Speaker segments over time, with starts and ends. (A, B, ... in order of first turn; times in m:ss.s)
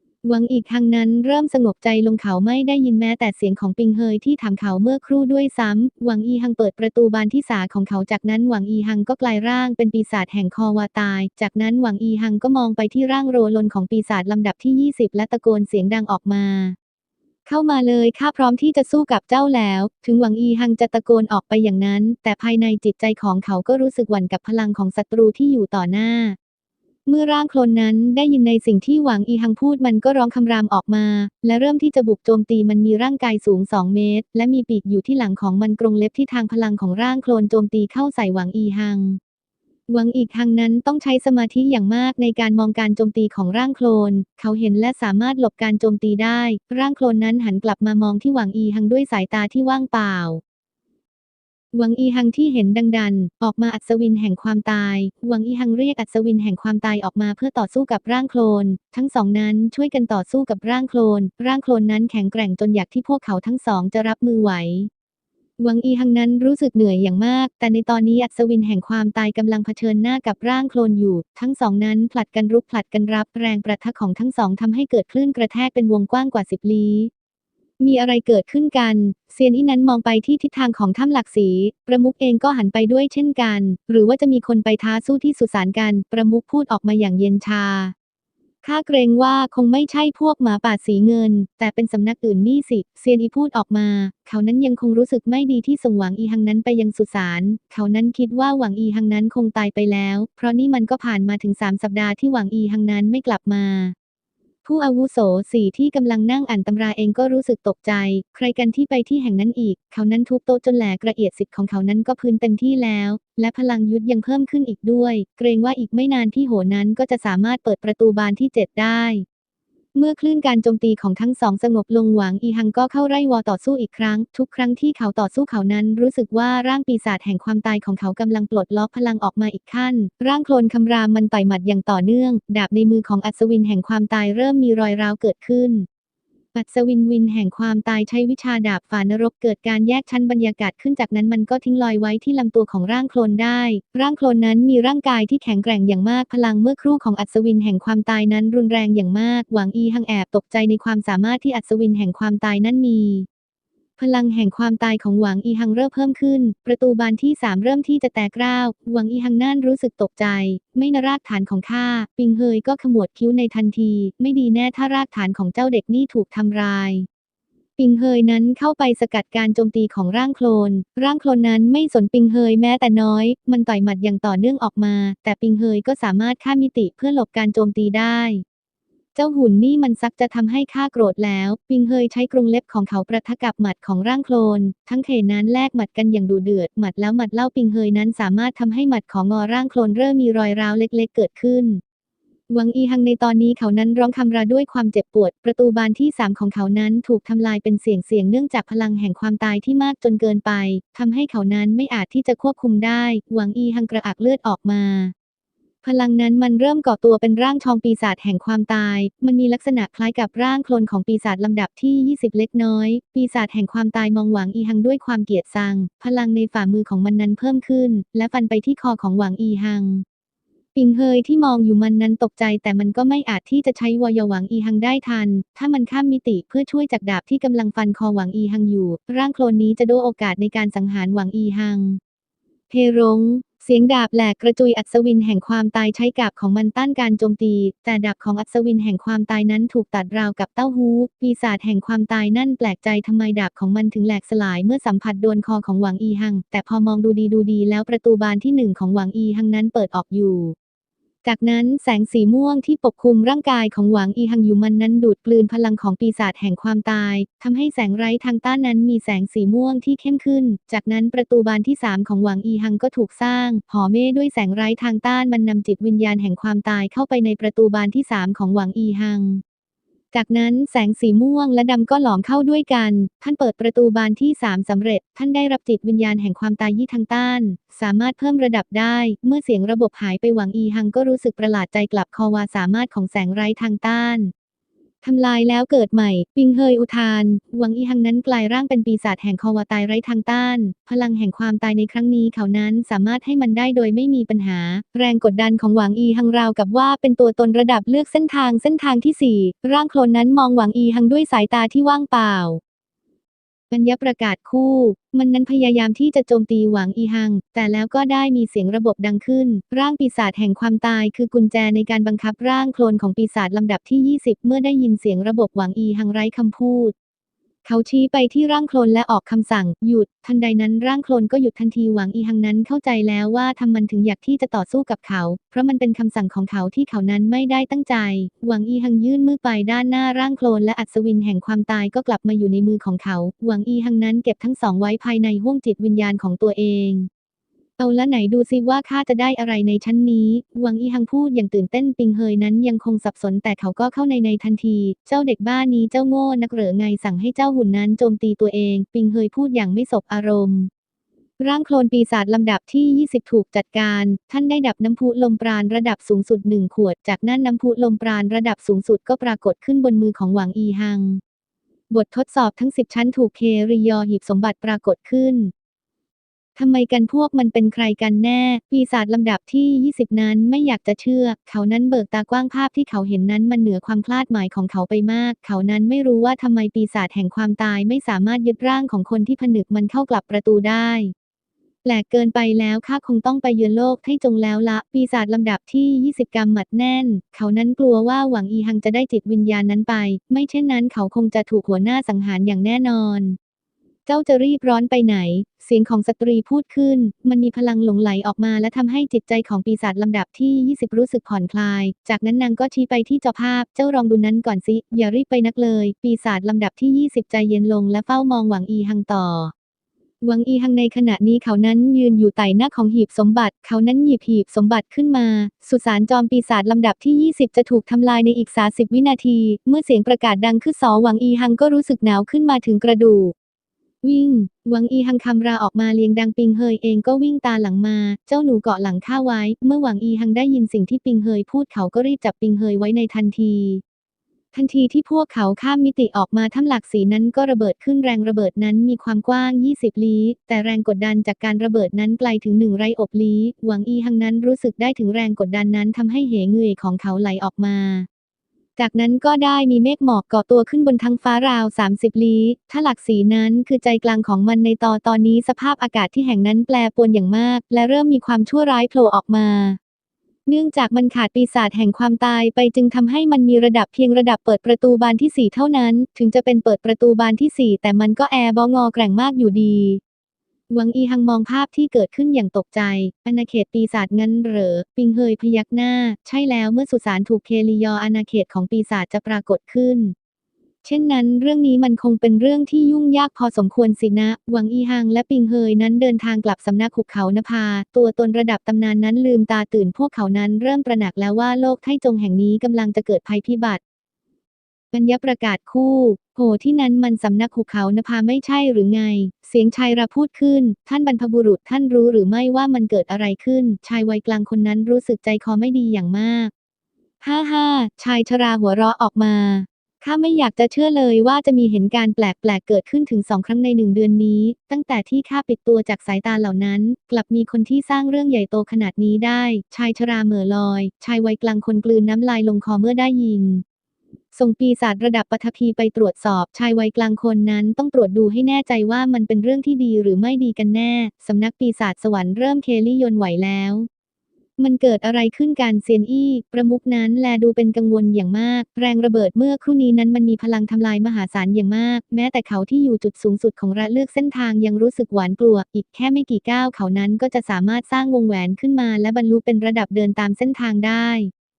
0:00.2-0:16.8 A
0:17.4-0:26.4 A
0:27.0-0:39.2 A
0:39.9-0:50.4 A
0:51.7-1:04.9 A
1:05.6-1:17.1 A
1:17.8-1:27.9 A
1:28.6-1:43.9 A
1:44.6-1:59.2 A
1:59.9-2:15.9 A
2:16.5-2:33.3 A
2:34.0-2:47.1 A
2:47.8-2:58.4 A
2:59.1-3:11.8 A
3:12.5-3:25.1 A
3:25.8-3:40.0 A
3:40.7-3:52.0 A
3:52.7-4:10.5 A
4:11.2-4:29.4 A
4:30.1-4:44.3 A
4:45.0-5:02.6 A
5:03.7-5:16.9 A
5:17.6-5:37.1 A
5:37.8-5:50.7 A
5:51.4-6:01.2 A
6:01.9-6:05.5 A
6:06.6-6:21.1 A
6:21.8-6:33.4 A
6:34.0-6:49.5 A
6:50.2-7:03.3 A
7:04.0-7:13.8 A
7:14.5-7:28.1 A
7:28.8-7:39.8 A
7:40.4-7:50.0 A
7:50.7-8:00.1 A
8:00.8-8:13.8 A
8:14.9-8:26.5 A
8:27.2-8:43.6 A
8:44.3-8:53.9 A
8:54.6-9:11.3 A